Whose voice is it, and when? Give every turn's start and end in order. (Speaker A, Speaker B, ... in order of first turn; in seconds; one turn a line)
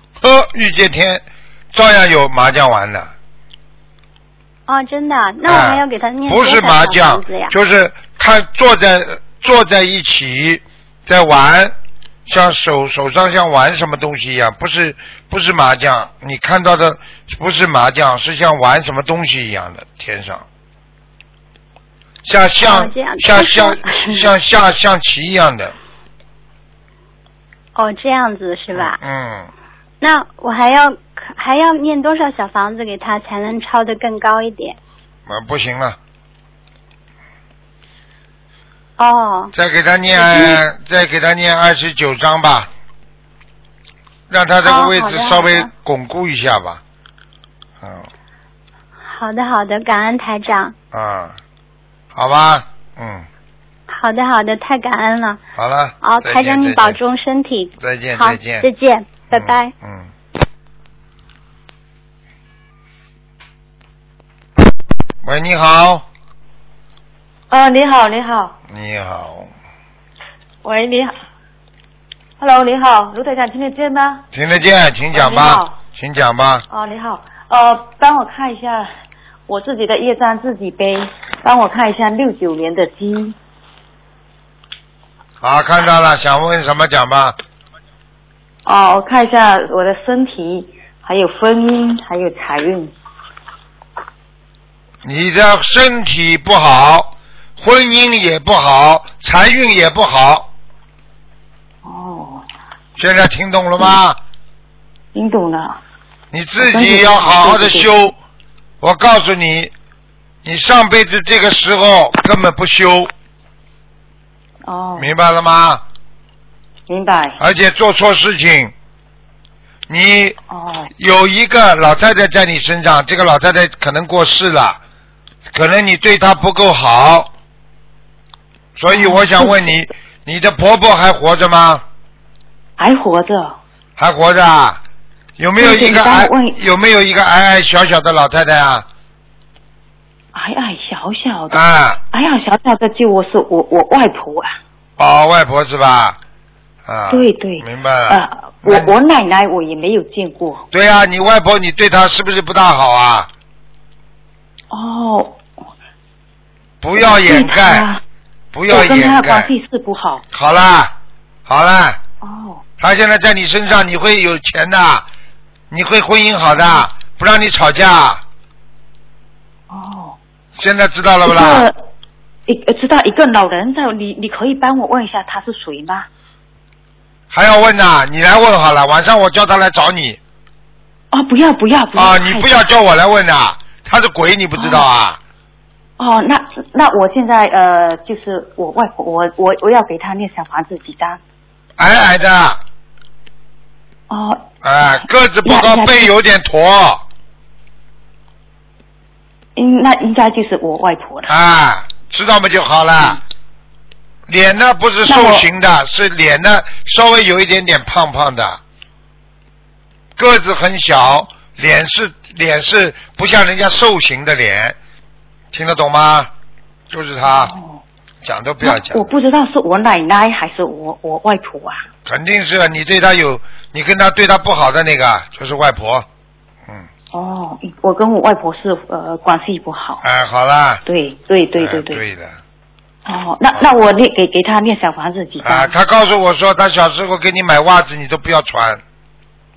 Speaker A: 0.2-3.1
Speaker B: 4.7-7.5
Speaker A: 5.4-11.7
Speaker A: 12.3-20.4
Speaker A: 22.2-25.7
Speaker B: 22.6-24.3
Speaker B: 27.7-29.0
Speaker A: 28.7-29.5
Speaker B: 30.0-34.8
Speaker A: 35.3-36.0
Speaker B: 39.0-39.5
Speaker A: 39.5-42.7
Speaker B: 40.1-40.6
Speaker A: 44.3-46.8
Speaker B: 44.6-45.7
Speaker A: 47.8-48.1
Speaker B: 49.0-50.7
Speaker A: 50.9-51.4
Speaker A: 52.1-53.3
Speaker B: 53.9-55.4
Speaker A: 55.5-57.0
Speaker B: 56.0-59.7
Speaker A: 57.8-58.6
Speaker A: 59.3-60.1
Speaker A: 65.2-66.0
Speaker C: 67.5-68.5
Speaker A: 68.7-69.5
Speaker C: 70.6-71.1
Speaker C: 72.4-74.2
Speaker A: 74.3-76.6
Speaker C: 75.1-75.8
Speaker C: 76.7-78.9
Speaker C: 79.5-83.3
Speaker A: 85.4-87.3
Speaker C: 88.7-92.9
Speaker A: 95.0-100.5
Speaker C: 101.8-102.5
Speaker A: 103.0-104.2
Speaker C: 105.1-105.8
Speaker A: 106.3-108.2
Speaker C: 106.6-107.9
Speaker A: 108.8-109.7
Speaker A: 110.4-113.1
Speaker C: 114.7-115.1
Speaker A: 115.0-115.8
Speaker C: 116.9-117.4
Speaker A: 117.4-118.7
Speaker A: 119.9-120.4
Speaker C: 120.5-120.9
Speaker A: 121.0-124.8
Speaker A: 125.5-127.3
Speaker A: 128.8-131.8
Speaker C: 128.9-129.8
Speaker C: 132.8-133.6
Speaker A: 134.0-134.8
Speaker A: 135.4-138.8
Speaker C: 135.6-136.6
Speaker C: 140.3-144.6
Speaker A: 141.5-142.0
Speaker A: 145.0-146.2
Speaker A: 146.8-148.9
Speaker C: 147.1-150.6
Speaker A: 150.7-153.3
Speaker C: 154.7-155.4
Speaker A: 156.8-157.8
Speaker C: 157.0-158.0
Speaker A: 158.5-159.5
Speaker C: 158.7-160.2
Speaker A: 160.3-160.9
Speaker A: 161.4-162.0
Speaker C: 162.2-162.6
Speaker A: 162.8-165.1
Speaker A: 165.7-168.2
Speaker C: 169.7-170.2
Speaker A: 170.6-171.7
Speaker C: 171.2-171.8
Speaker C: 172.5-176.1
Speaker A: 177.3-180.2
Speaker C: 181.1-182.6
Speaker A: 181.9-185.2
Speaker C: 184.6-184.8
Speaker C: 186.0-191.2
Speaker A: 191.8-192.6
Speaker C: 194.1-194.5
Speaker A: 194.6-197.0
Speaker C: 195.4-196.1
Speaker C: 199.6-201.3
Speaker A: 201.3-203.2
Speaker A: 204.3-208.6
Speaker C: 205.1-205.4
Speaker A: 210.2-214.8
Speaker A: 215.5-216.3
Speaker A: 216.9-217.5
Speaker C: 217.2-217.8
Speaker A: 218.2-219.1
Speaker C: 218.6-221.8
Speaker A: 222.0-226.1
Speaker C: 227.1-230.0
Speaker A: 230.0-230.8
Speaker C: 230.8-232.0
Speaker A: 231.6-232.4
Speaker C: 233.1-235.7
Speaker A: 235.4-238.8